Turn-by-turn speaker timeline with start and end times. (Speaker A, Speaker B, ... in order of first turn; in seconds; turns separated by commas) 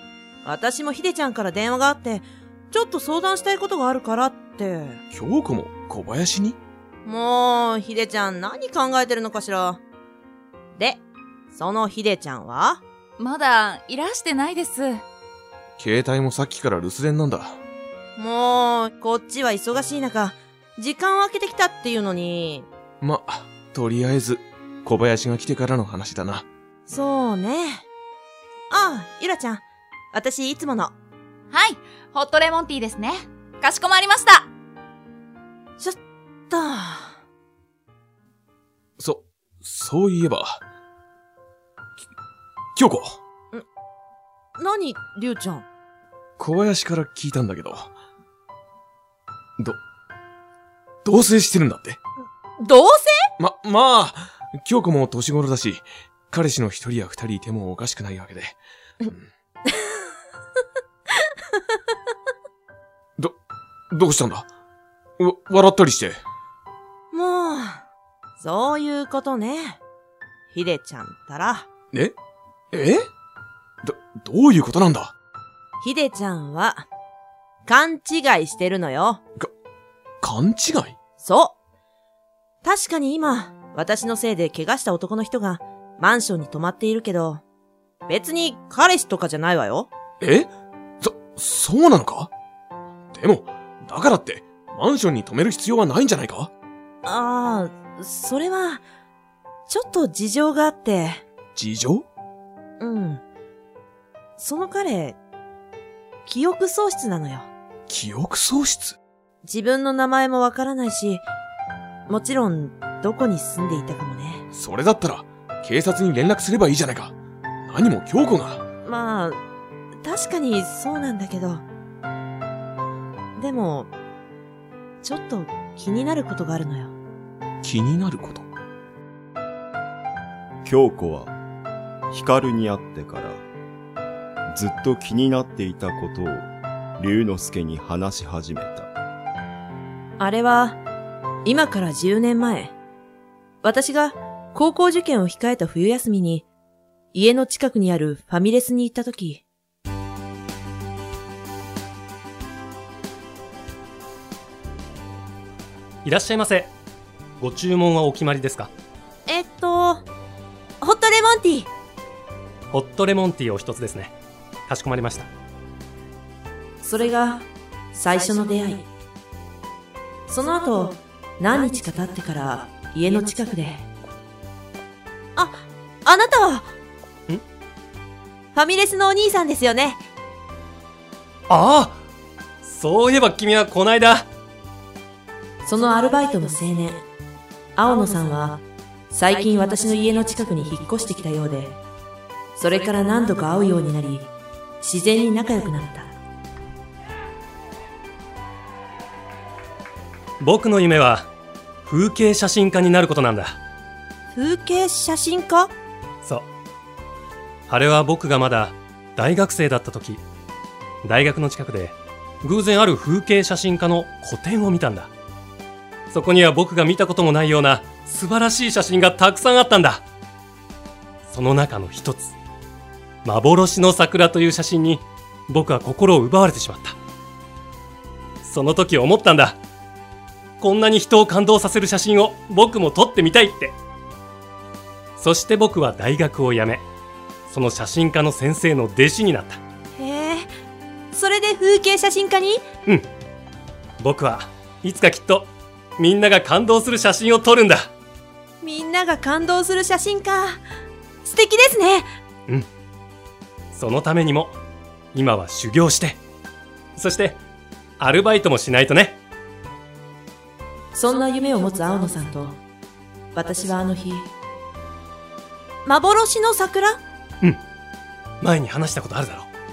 Speaker A: 0.4-5.0, Speaker B: 5.1-6.6, Speaker A: 7.0-9.8, Speaker A: 10.8-12.8, Speaker C: 13.2-15.0, Speaker B: 15.8-17.6, Speaker A: 18.2-22.7, Speaker B: 23.0-26.4, Speaker A: 26.9-27.8, Speaker A: 28.7-30.9, Speaker C: 31.5-34.5, Speaker A: 36.5-37.1, Speaker B: 39.0-40.6, Speaker B: 42.8-43.2, Speaker A: 44.6-45.6, Speaker B: 46.4-47.9, Speaker B: 51.0-52.0, Speaker A: 52.6-53.3, Speaker B: 53.4-59.3, Speaker B: 63.9-64.5, Speaker B: 65.2-66.2, Speaker A: 67.1-67.8, Speaker A: 68.4-69.8, Speaker A: 70.5-71.7, Speaker B: 72.7-73.1, Speaker B: 73.8-75.1, Speaker A: 75.8-76.8, Speaker A: 77.7-79.2, Speaker B: 80.2-81.0, Speaker A: 81.2-81.5, Speaker A: 82.6-87.4, Speaker A: 88.1-89.9, Speaker B: 90.2-90.5, Speaker B: 91.0-92.3, Speaker B: 93.1-96.5, Speaker A: 97.0-98.8, Speaker A: 99.7-101.2, Speaker B: 101.5-102.0, Speaker A: 102.8-103.2, Speaker A: 104.4-105.2, Speaker A: 106.2-107.5, Speaker B: 107.9-109.0, Speaker A: 109.4-111.2, Speaker A: 112.1-114.4, Speaker B: 114.5-118.6, Speaker A: 118.8-119.4, Speaker A: 120.0-121.6, Speaker A: 123.4-123.9, Speaker A: 125.0-126.9, Speaker B: 127.6-128.5, Speaker D: 130.6-131.3, Speaker D: 132.1-133.4, Speaker D: 134.5-136.5, Speaker D: 137.0-138.9, Speaker A: 140.2-140.8, Speaker A: 141.4-142.7, Speaker A: 143.6-146.5, Speaker A: 147.1-149.4, Speaker E: 156.0-156.7, Speaker E: 157.4-158.7, Speaker A: 159.3-160.0, Speaker A: 160.8-161.7, Speaker E: 162.7-164.1, Speaker E: 164.7-165.3, Speaker A: 166.8-168.9, Speaker A: 170.3-173.8, Speaker A: 175.3-176.7, Speaker A: 178.5-180.0, Speaker E: 181.5-182.0, Speaker E: 182.6-184.2, Speaker A: 185.6-187.0, Speaker A: 187.8-191.8, Speaker A: 192.6-194.3, Speaker A: 194.8-196.1, Speaker E: 200.4-201.3, Speaker E: 201.8-203.6, Speaker A: 204.3-205.7, Speaker E: 207.7-210.2, Speaker E: 211.0-215.1, Speaker E: 216.1-220.0, Speaker E: 221.3-222.3, Speaker E: 223.2-226.9, Speaker E: 228.4-229.6, Speaker E: 230.6-233.8, Speaker E: 235.2-236.8, Speaker E: 237.5-239.6, Speaker A: 239.9-240.5, Speaker A: 241.1-242.6, Speaker E: 244.0-247.9, Speaker A: 248.6-250.6, Speaker A: 251.2-252.1, Speaker E: 253.7-254.6, Speaker E: 255.1-256.2, Speaker E: 256.9-257.4, Speaker E: 258.0-259.2, Speaker A: 260.9-262.6, Speaker A: 263.3-264.3, Speaker A: 265.9-267.0, Speaker E: 268.4-269.5